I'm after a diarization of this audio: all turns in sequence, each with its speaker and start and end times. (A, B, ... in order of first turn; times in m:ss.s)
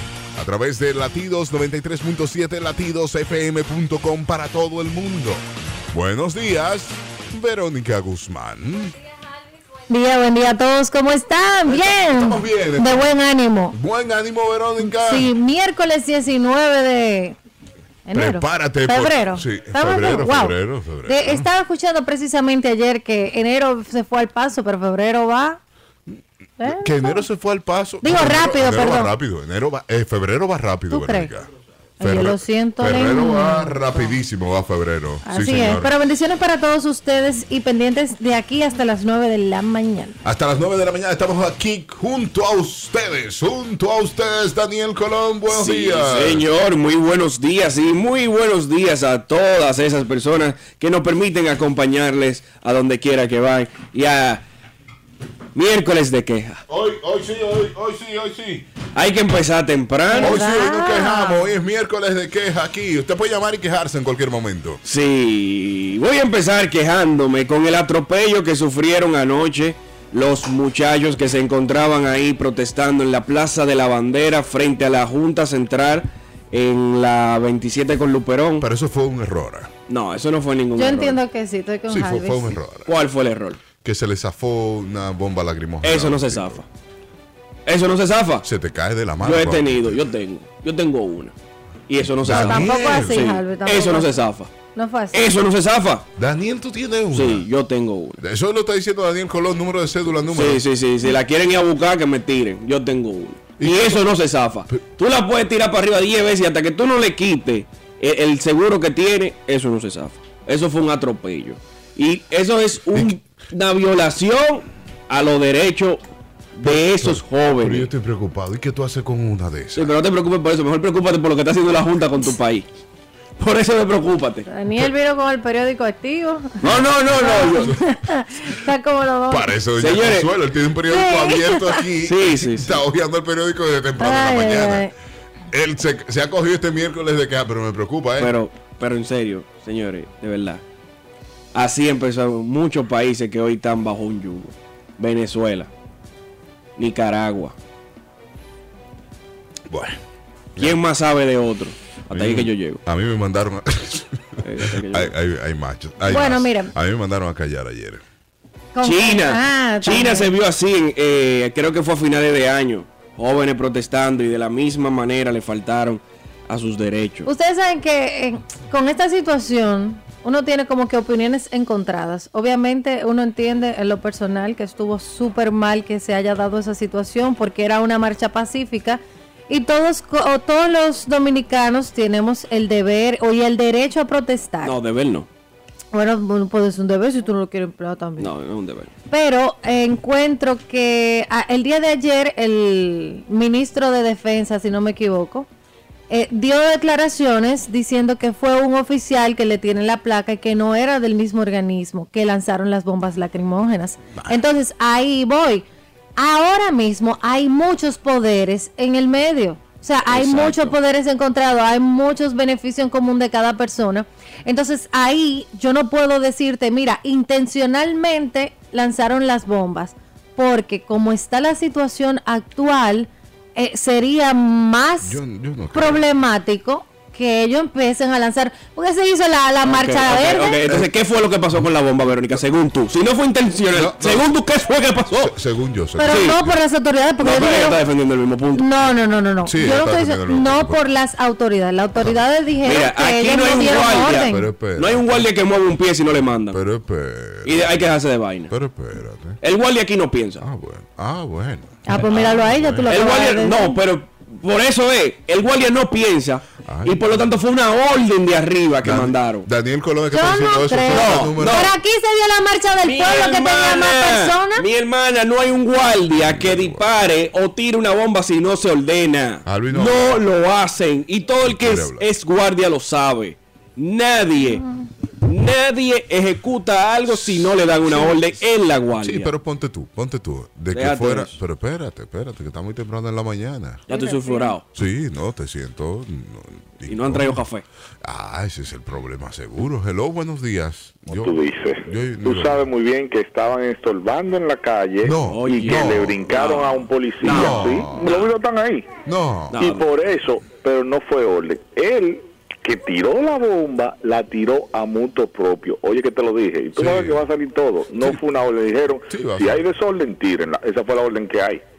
0:00.4-0:09.0 A
0:09.8-0:13.8 B
0:11.7-0:13.0 A
0:13.7-0:15.3 A
0:14.8-0:17.4 B
0:18.0-0:20.5 B
0:18.1-0:21.5 A
0:21.0-0:25.6 B
0:26.1-0:31.5 A
0:26.6-0:27.2 B
0:28.0-0:29.1 B
0:30.9-0:31.3 B
0:32.0-0:34.2 B
0:32.0-0:35.9 A
0:35.2-0:40.2 B
0:40.2-0:46.4 A
0:45.5-0:54.4 C
0:55.5-0:56.6 C
0:56.7-0:58.7 A
0:58.9-1:00.4 C
1:00.1-1:01.6 B
1:00.2-1:04.8 A
1:04.8-1:18.6 C
1:18.6-1:19.7 A
1:19.9-1:21.2 C
1:20.8-1:22.6 B
1:21.9-1:22.9 A
1:22.9-1:23.6 C
1:23.8-1:26.6 A
1:25.8-1:26.6 C
1:27.6-1:28.4 C
1:28.4-1:30.0 A
1:29.2-1:31.3 C
1:31.9-1:34.5 C
1:32.1-1:33.2 A
1:32.3-1:34.2 B
1:34.7-1:35.3 B
1:35.1-1:36.1 C
1:36.2-1:37.4 A
1:37.1-1:38.2 C
1:38.2-1:40.6 A
1:40.3-1:56.0 C
1:43.6-1:44.1 A
1:56.6-1:57.9 C
1:56.6-1:59.9 A
1:59.8-2:02.7 C
2:03.4-2:04.5 C
2:04.5-2:09.5 B
2:06.6-2:07.7 C
2:09.3-2:14.8 A
2:09.8-2:10.3 C
2:10.9-2:11.8 B
2:12.0-2:12.8 C
2:14.0-2:14.9 B
2:15.5-2:18.3 A
2:18.2-2:20.6 C
2:21.5-2:25.7 C
2:26.8-2:27.5 C
2:29.7-2:30.0 A
2:30.6-2:32.8 C
2:32.1-2:34.2 A
2:34.4-2:35.1 C
2:34.9-2:38.0 A
2:36.1-2:36.7 B
2:38.8-2:40.3 B
2:38.8-2:47.3 C
2:47.3-3:04.8 B
3:04.6-3:05.3 C
3:05.9-3:08.3 B
3:08.2-3:08.9 C
3:09.1-3:15.5 B
3:16.1-3:25.6 B
3:26.2-3:45.2 B
3:30.1-3:30.8 C
3:45.0-3:46.0 A
3:45.7-3:50.6 B
3:49.6-3:55.3 C
3:53.7-3:54.3 A
3:55.1-3:56.5 A
3:56.0-3:57.8 B
3:56.1-3:56.4 C
3:57.2-3:58.6 C
3:58.5-4:04.4 B
3:59.4-4:00.8 A
4:02.6-4:06.6 C
4:04.2-4:05.3 A
4:06.5-4:07.7 A
4:07.4-4:08.5 C
4:08.5-4:09.4 A
4:09.4-4:10.4 C
4:10.4-4:12.9 A
4:11.8-4:13.8 B
4:12.8-4:19.5 C
4:16.6-4:17.3 A
4:18.8-4:21.6 A
4:20.1-4:24.6 B
4:20.9-4:21.7 C
4:22.8-4:34.6 C
4:26.2-4:26.9 A
4:29.4-4:30.2 A
4:31.4-4:32.0 A
4:34.5-4:34.9 B
4:35.2-4:39.3 C
4:37.1-4:37.6 A
4:39.0-4:43.8 A
4:40.7-4:41.4 C
4:43.9-4:44.6 B
4:43.9-4:44.6 C
4:44.7-4:47.4 A
4:46.9-4:47.6 C
4:48.0-4:52.7 A
4:51.1-4:58.9 D
4:55.0-4:56.7 A
4:55.3-4:58.2 C
4:57.2-4:58.1 A
4:59.0-4:59.6 A
4:59.5-4:59.8 C
4:59.6-5:11.6 D
5:06.8-5:07.2 A
5:09.1-5:09.6 A